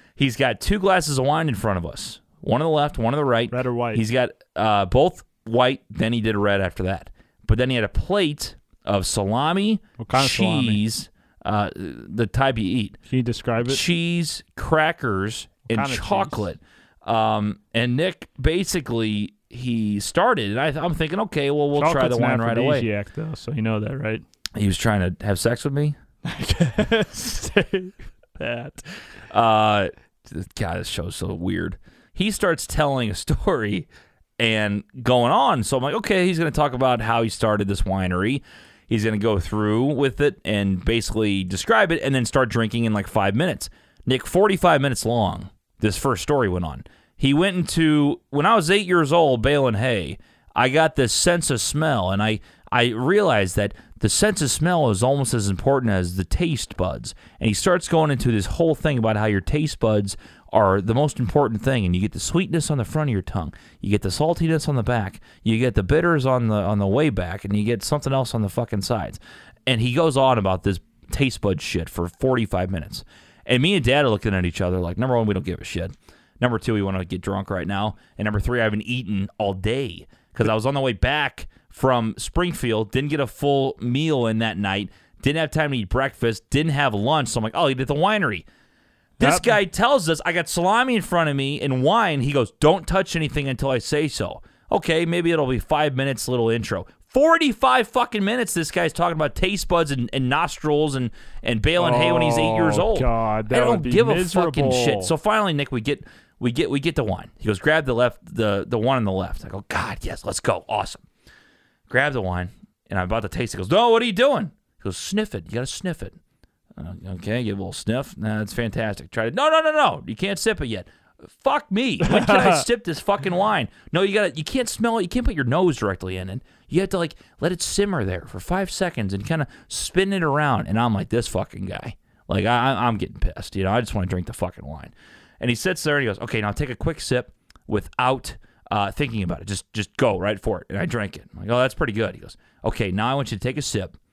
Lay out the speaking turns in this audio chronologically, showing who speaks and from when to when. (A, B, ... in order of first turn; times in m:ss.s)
0:00.2-0:13.0 A
0:03.5-0:04.0 B
0:10.0-0:10.8 B
0:13.1-0:13.8 B
0:13.6-0:22.9 A
0:15.7-0:16.5 B
0:21.7-0:24.2 B
0:24.6-0:26.0 A
0:26.2-0:28.8 B
0:29.3-0:33.9 A
0:34.4-1:28.5 A
1:29.2-1:29.6 B
1:29.2-1:51.0 A
1:41.8-1:45.1 B
1:51.9-1:56.2 A
1:56.8-2:24.0 A
2:02.0-2:02.6 B